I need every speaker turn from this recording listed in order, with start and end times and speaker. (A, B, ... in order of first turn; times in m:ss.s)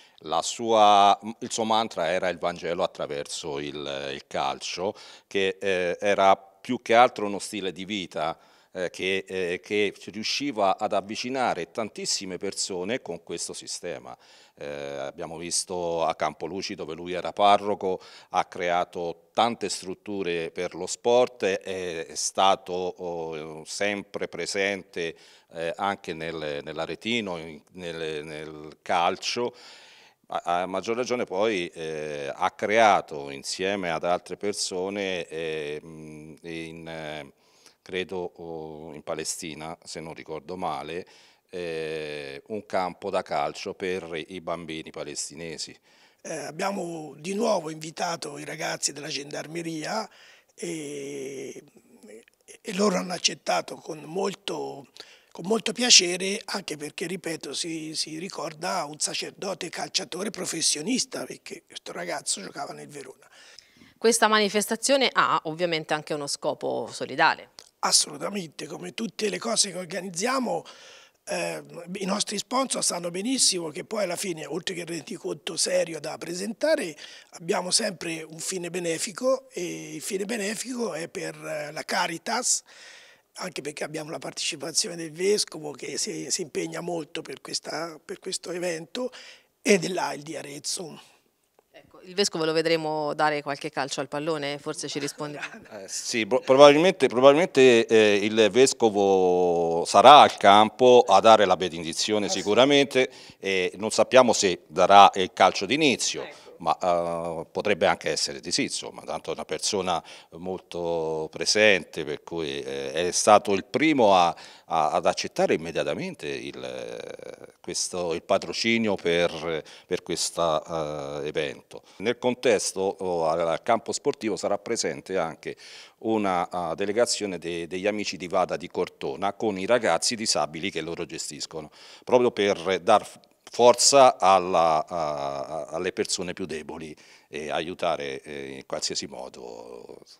0:00.2-0:29.6 A
0:30.3-0:37.3 A
0:37.8-0:45.8 A
0:46.2-0:51.6 B
0:52.6-1:03.3 B
1:04.0-1:07.5 C
1:07.8-1:10.7 B
1:11.3-1:22.7 B
1:23.4-1:29.1 B
1:29.6-1:31.0 B
1:31.8-1:35.5 C
1:35.7-2:20.1 A